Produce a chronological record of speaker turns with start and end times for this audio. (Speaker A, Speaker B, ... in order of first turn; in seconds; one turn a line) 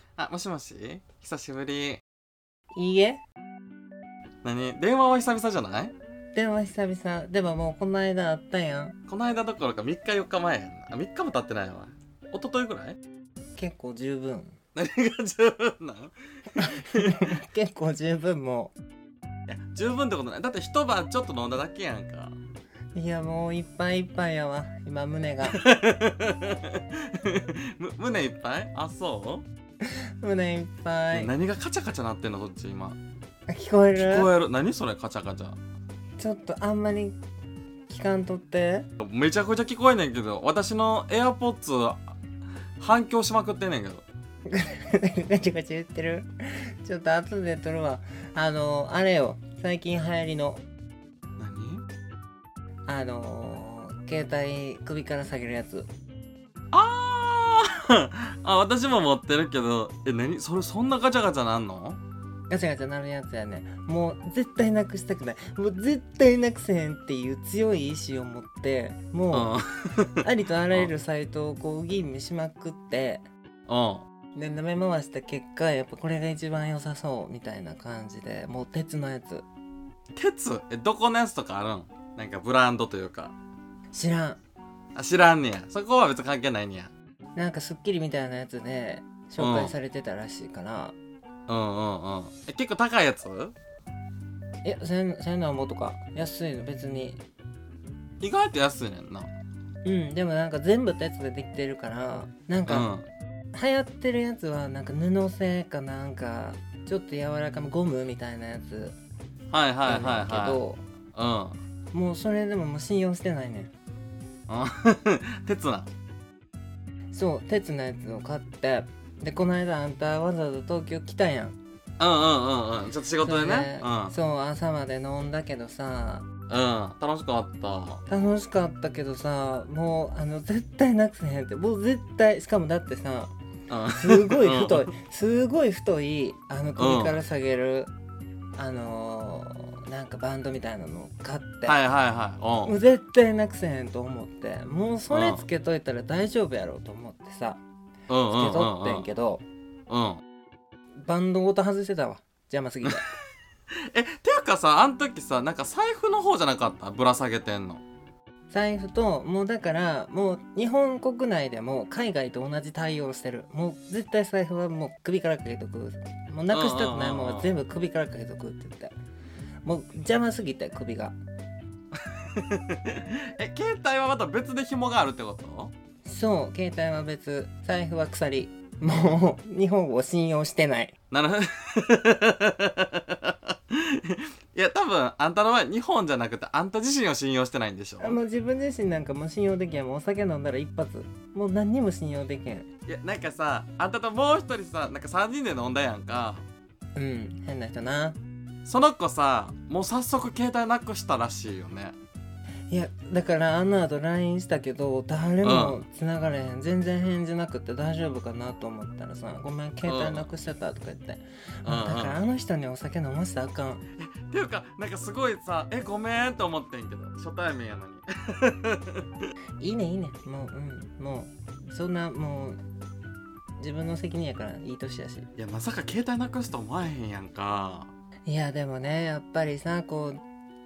Speaker A: 0.2-2.0
Speaker B: 2.8-3.2
Speaker A: 4.4-5.9
Speaker B: 6.3-9.0
Speaker A: 9.1-13.0
Speaker B: 13.6-14.6
Speaker A: 14.8-17.4
Speaker B: 16.6-18.7
Speaker A: 19.5-22.4
Speaker B: 22.9-25.6
Speaker A: 25.5-29.4
Speaker B: 30.2-31.3
Speaker A: 31.1-33.0
Speaker B: 33.5-34.3
Speaker A: 34.0-35.6
Speaker B: 36.2-37.2
Speaker B: 37.9-38.9
Speaker A: 39.0-42.0
Speaker A: 42.8-44.0
Speaker B: 44.5-50.6
Speaker A: 51.4-51.8
Speaker B: 52.9-55.9
Speaker A: 56.7-62.0
Speaker B: 62.5-69.5
Speaker A: 69.3-70.2
Speaker B: 70.2-73.2
Speaker A: 73.7-74.0
Speaker B: 74.3-79.5
Speaker A: 80.2-83.3
Speaker B: 83.9-84.4
Speaker A: 85.0-86.9
Speaker B: 87.4-91.0
Speaker A: 89.4-89.7
Speaker A: 91.5-93.5
Speaker B: 94.6-97.2
Speaker A: 98.2-99.3
Speaker B: 99.8-102.9
Speaker A: 102.7-103.1
Speaker B: 103.5-109.0
Speaker A: 109.5-110.6
Speaker B: 109.8-110.8
Speaker A: 111.2-111.6
Speaker B: 111.9-113.7
Speaker A: 114.5-115.9
Speaker B: 117.1-121.6
Speaker A: 122.0-124.2
Speaker B: 123.2-126.3
Speaker A: 126.5-128.0
Speaker B: 128.1-133.3
Speaker A: 133.7-134.9
Speaker B: 133.9-137.9
Speaker A: 136.8-137.2
Speaker B: 138.6-141.8
Speaker A: 141.7-142.7
Speaker B: 142.6-147.6
Speaker A: 145.1-145.4
Speaker A: 148.1-149.1
Speaker B: 148.3-149.4
Speaker A: 149.9-150.2
Speaker B: 151.1-153.1
Speaker A: 153.9-157.8
Speaker B: 158.5-168.9
Speaker A: 166.5-167.5
Speaker B: 169.7-171.2
Speaker A: 172.1-175.7
Speaker B: 176.1-180.9
Speaker A: 181.1-188.2
Speaker B: 188.0-192.7
Speaker A: 192.9-196.4
Speaker B: 196.9-198.2
Speaker A: 198.7-202.0
Speaker B: 202.7-213.8
Speaker A: 205.4-205.8
Speaker A: 209.9-210.3
Speaker A: 211.7-212.2
Speaker A: 214.0-219.0
Speaker B: 219.6-222.6
Speaker B: 223.6-225.3
Speaker A: 225.4-227.9
Speaker B: 228.3-230.2